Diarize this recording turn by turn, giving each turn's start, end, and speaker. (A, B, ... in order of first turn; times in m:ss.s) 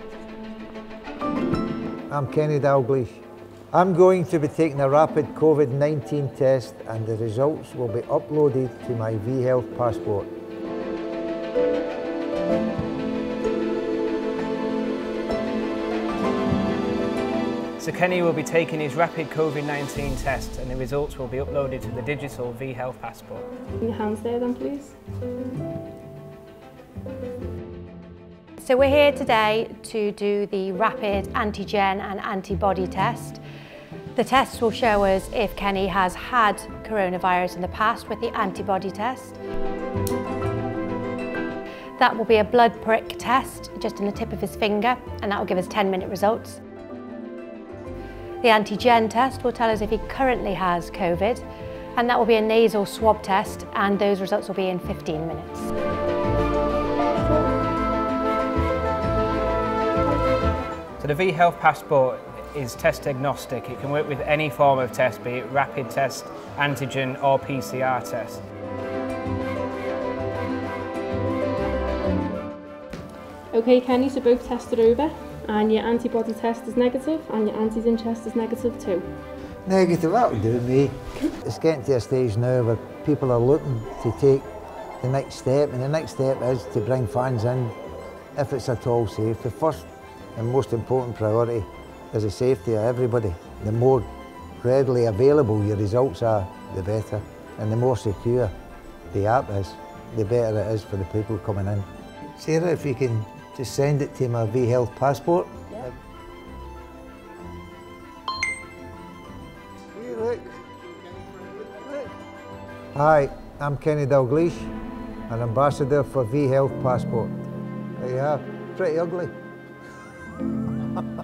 0:02.1-0:10.3 A
0:17.8-0:23.5 B
0:23.8-0:25.0 C
0:28.6-0:33.4 D
0:34.2-0:39.4 D
0:42.0-0:46.6 D
0:48.4-0:51.4 D
0:52.0-0:55.7 D
1:01.0-1:08.4 B
1:13.5-1:19.1 C
1:19.7-1:24.4 A
1:25.0-1:27.8 A
1:28.4-1:34.1 A
1:34.6-1:38.5 A
1:39.1-1:41.9 A
1:42.4-1:45.9 A
1:50.0-1:50.6 A
1:51.7-1:52.1 A
1:52.9-1:54.7 A
1:55.3-1:57.3 A
1:58.0-1:59.3 A
2:00.8-2:01.1 A